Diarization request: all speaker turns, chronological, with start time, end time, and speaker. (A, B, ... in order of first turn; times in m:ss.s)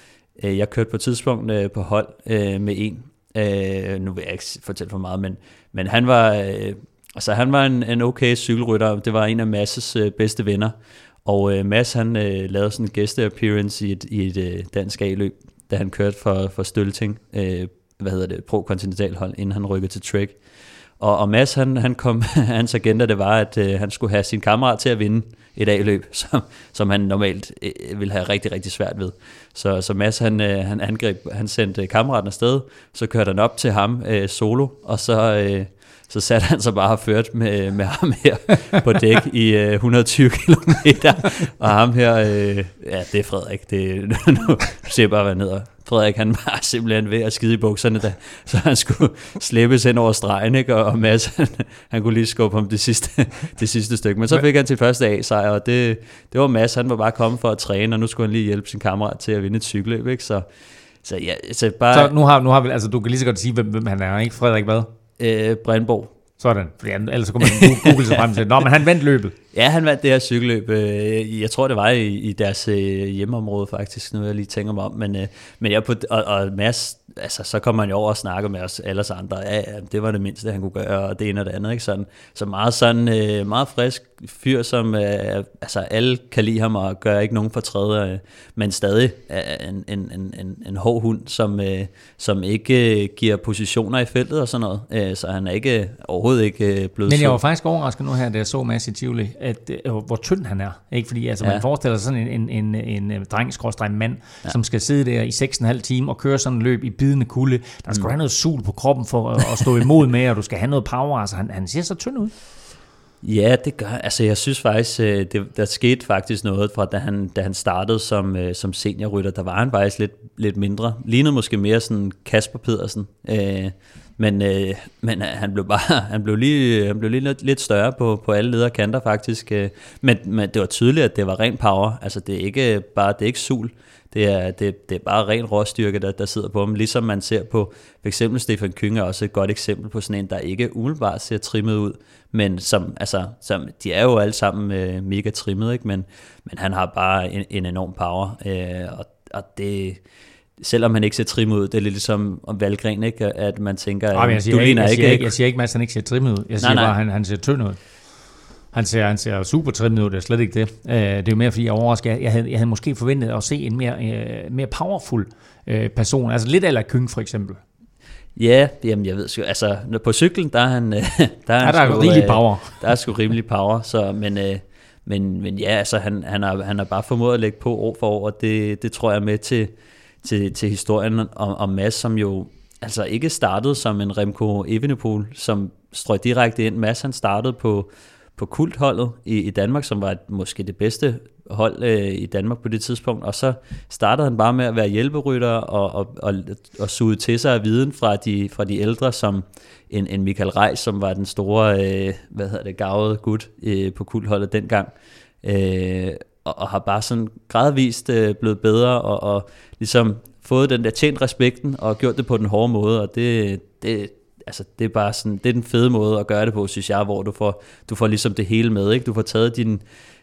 0:00.4-0:20.4 A
0:21.0-1:00.4 A
1:01.0-1:02.1 A
1:01.9-1:04.9 B
1:05.2-1:06.1 A
1:06.4-1:09.3 B
1:09.5-1:37.4 A
1:37.0-1:52.3 B
1:53.2-2:30.0 A
2:30.6-2:35.3 A
2:34.1-2:47.6 B
2:36.6-2:37.0 A
2:48.4-2:59.7 A
2:51.6-2:52.8 B
3:00.2-3:24.9 A
3:25.4-3:39.8 A